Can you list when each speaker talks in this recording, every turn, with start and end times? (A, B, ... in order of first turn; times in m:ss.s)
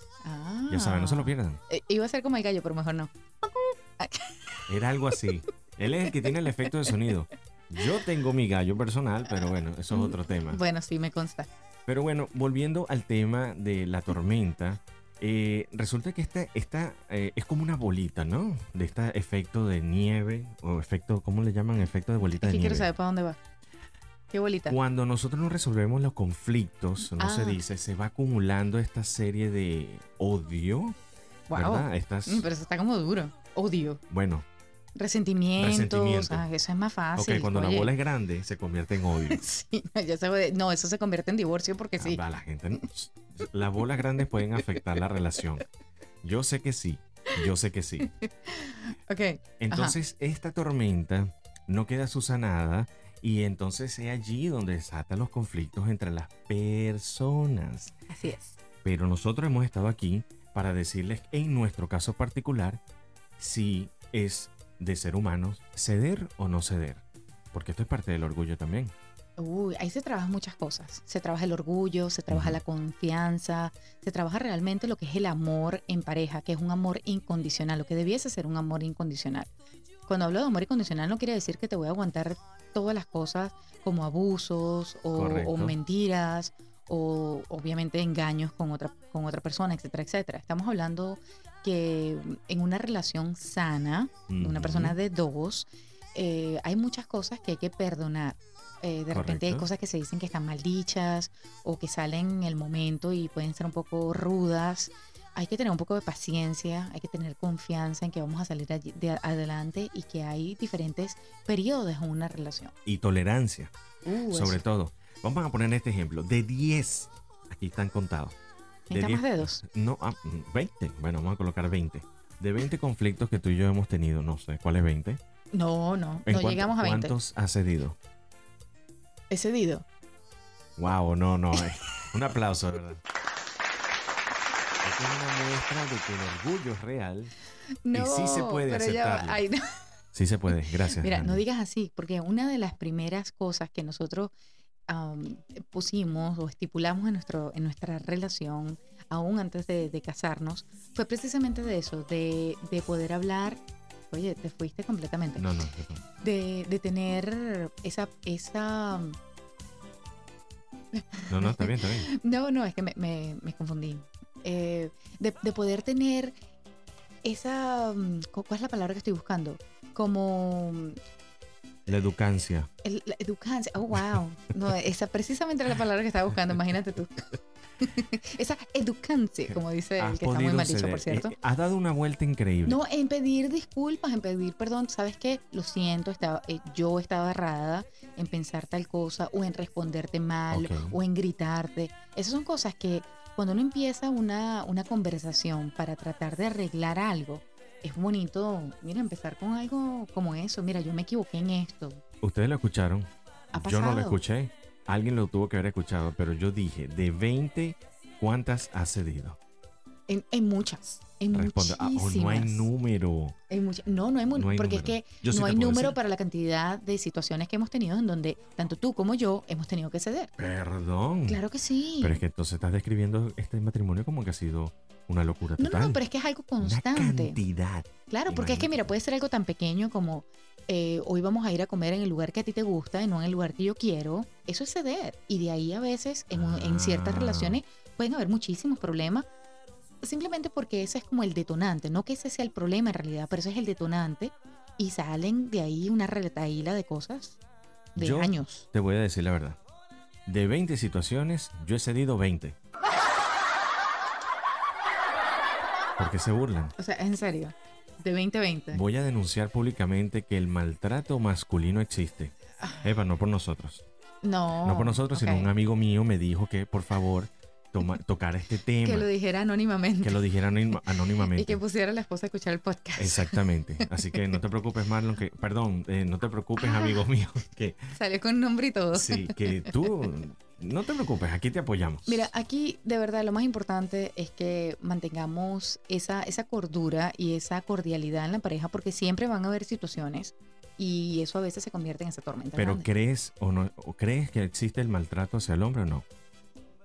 0:00.2-0:04.7 A
0:00.7-0:01.6 B
0:04.7-0:10.6 B
0:09.9-0:11.5 A
0:11.9-0:22.9 B
0:22.2-0:23.4 A
0:24.3-0:24.8 A
0:24.7-0:31.0 B
0:27.1-0:27.6 A
0:31.5-0:34.0 A
0:31.5-0:32.4 B
0:34.1-0:34.4 B
0:35.0-0:37.9 A
0:35.6-0:36.4 B
0:37.1-0:39.4 B
0:39.3-0:42.2 A
0:42.0-0:45.6 B
0:46.2-0:48.1 B
0:48.1-0:50.0 A
0:49.6-0:57.9 B
0:58.1-0:58.6 A
0:58.8-1:02.8 B
1:03.4-1:08.9 B
1:09.4-1:19.5 A
1:12.3-1:12.6 B
1:20.1-1:52.7 A
1:25.1-1:25.8 B
1:34.3-1:35.0 B
1:39.1-1:39.7 B
1:52.8-1:53.7 B
1:54.0-1:54.6 A
1:54.3-1:58.4 B
1:58.9-1:59.6 A
1:58.9-2:05.2 B
2:05.5-2:07.2 A
2:06.2-2:08.0 B
2:09.3-2:09.8 A
2:10.8-2:13.0 B
2:14.8-2:17.3 B
2:17.8-2:19.6 A
2:17.9-2:19.4 B
2:20.1-2:21.4 B
2:20.8-2:24.3 A
2:24.9-2:35.4 A
2:35.4-2:36.0 B
2:36.2-2:39.2 A
2:40.9-2:46.3 A
2:41.3-2:42.1 B
2:47.2-2:51.0 A
2:51.9-2:52.7 B
2:52.8-3:01.3 A
2:59.5-3:02.8 B
3:02.6-3:22.0 A
3:10.5-3:11.0 B
3:22.2-3:29.4 B
3:23.5-3:24.2 A
3:30.1-3:32.7 A
3:31.3-3:33.4 B
3:33.5-3:40.3 A
3:34.3-3:36.0 B
3:40.4-3:41.4 B
3:41.3-3:42.2 A
3:42.0-3:46.0 B
3:45.6-3:47.4 A
3:46.6-3:48.9 B
3:48.1-3:59.2 A
3:56.3-3:57.6 B
4:00.0-4:07.4 A
4:07.9-4:08.6 A
4:08.0-4:09.6 B
4:10.2-4:12.6 B
4:16.0-4:16.7 B
4:16.8-4:18.8 A
4:18.7-4:23.8 B
4:22.6-4:22.8 A
4:24.2-4:25.5 A
4:24.6-4:29.1 B
4:28.8-4:30.2 A
4:30.0-4:31.6 B
4:31.2-4:33.9 A
4:33.0-4:37.9 B
4:36.6-4:37.0 A
4:37.9-4:39.8 A
4:38.9-4:42.2 B
4:42.0-4:52.9 A
4:52.6-4:56.0 B